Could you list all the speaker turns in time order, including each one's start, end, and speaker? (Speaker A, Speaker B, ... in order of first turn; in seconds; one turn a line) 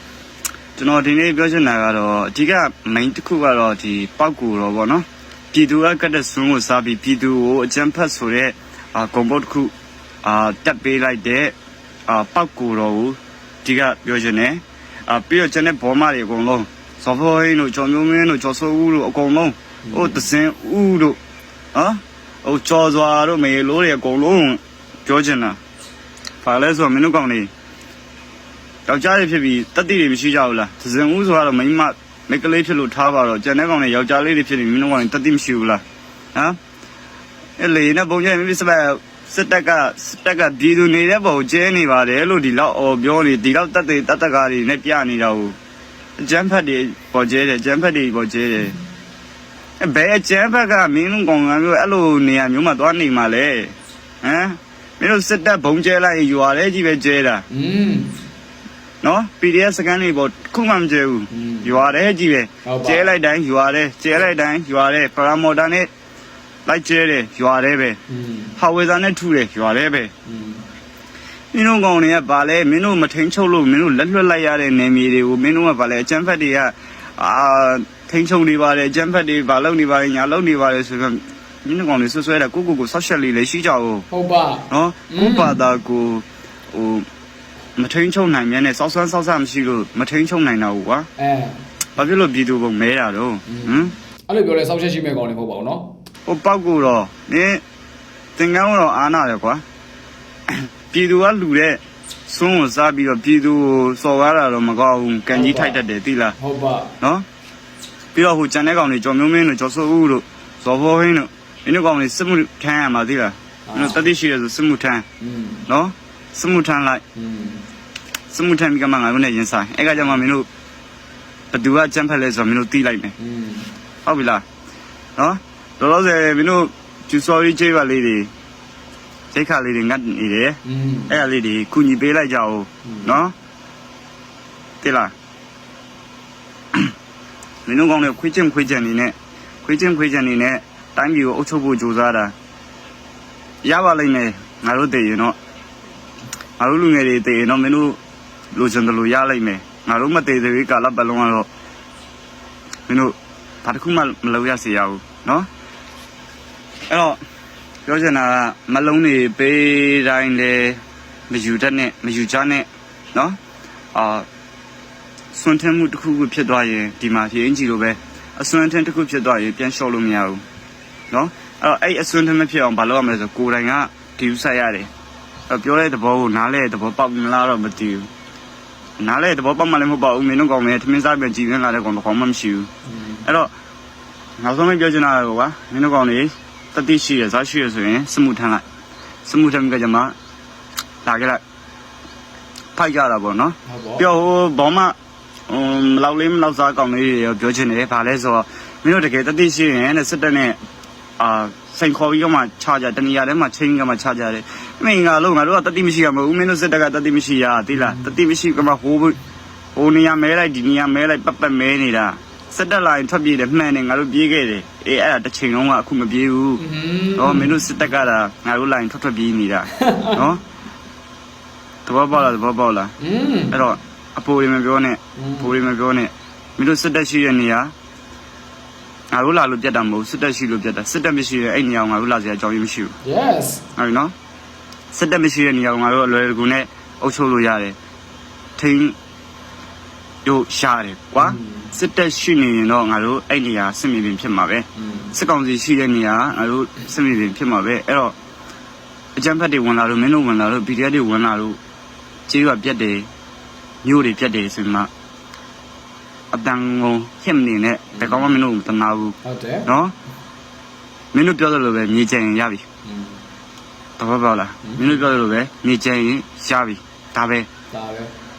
Speaker A: 0.8-9.7
Speaker A: 10.2-11.5
Speaker A: 12.1-21.2
Speaker B: 19.9-20.3
Speaker A: 21.7-25.6
Speaker A: 26.4-27.5
Speaker A: 28.9-35.8
Speaker A: 37.6-45.5
Speaker A: 46.2-48.8
Speaker A: 49.8-57.5
Speaker B: 57.5-58.2
Speaker A: 59.0-65.9
Speaker B: 61.3-61.8
Speaker B: 62.6-63.1
Speaker A: 66.7-68.0
Speaker B: 68.1-68.6
Speaker A: 68.6-70.1
Speaker B: 70.3-70.7
Speaker A: 71.5-84.1
Speaker B: 84.1-85.6
Speaker A: 84.7-87.1
Speaker A: 87.8-91.1
Speaker B: 91.2-91.6
Speaker A: 92.0-93.9
Speaker B: 93.5-95.9
Speaker A: 96.3-97.6
Speaker A: 98.4-99.6
Speaker A: 100.5-106.4
Speaker B: 105.3-105.8
Speaker B: 106.4-106.9
Speaker A: 108.2-115.1
Speaker B: 113.7-114.0
Speaker B: 115.2-115.7
Speaker A: 115.7-117.0
Speaker B: 117.2-117.7
Speaker A: 118.3-120.5
Speaker A: 121.5-123.2
Speaker B: 123.2-123.7
Speaker A: 124.0-124.5
Speaker A: 125.2-128.3
Speaker A: 129.3-133.3
Speaker B: 130.7-131.2
Speaker B: 132.9-133.2
Speaker A: 134.8-135.1
Speaker A: 137.7-142.3
Speaker A: 143.6-145.3
Speaker A: 146.6-148.0
Speaker A: 148.6-151.5
Speaker A: 152.9-155.5
Speaker A: 156.9-157.2
Speaker A: 157.9-163.4
Speaker A: 163.9-164.3
Speaker A: 165.3-170.4
Speaker A: 171.1-174.9
Speaker A: 175.5-178.1
Speaker A: 179.0-182.7
Speaker B: 182.9-183.2
Speaker A: 183.2-183.5
Speaker A: 184.4-188.6
Speaker A: 189.2-190.1
Speaker A: 191.1-191.4
Speaker A: 192.8-194.9
Speaker B: 193.7-194.1
Speaker A: 195.5-200.6
Speaker A: 201.2-209.2
Speaker A: 209.8-216.6
Speaker B: 216.6-217.6
Speaker A: 217.2-220.4
Speaker B: 219.8-220.3
Speaker A: 221.9-222.9
Speaker B: 223.0-223.7
Speaker A: 223.5-227.7
Speaker B: 225.2-225.6
Speaker A: 229.1-232.9
Speaker B: 233.0-233.6
Speaker A: 233.8-234.1
Speaker A: 234.9-237.8
Speaker A: 238.6-238.9
Speaker A: 240.2-248.2
Speaker B: 241.2-241.7
Speaker B: 244.8-245.1
Speaker A: 249.2-251.6
Speaker A: 252.3-253.1
Speaker A: 253.8-254.9
Speaker A: 256.3-259.9
Speaker B: 257.9-258.3
Speaker B: 259.2-259.7
Speaker A: 261.1-262.6
Speaker B: 262.9-263.2
Speaker A: 264.0-267.5
Speaker B: 264.6-265.1
Speaker B: 267.7-268.1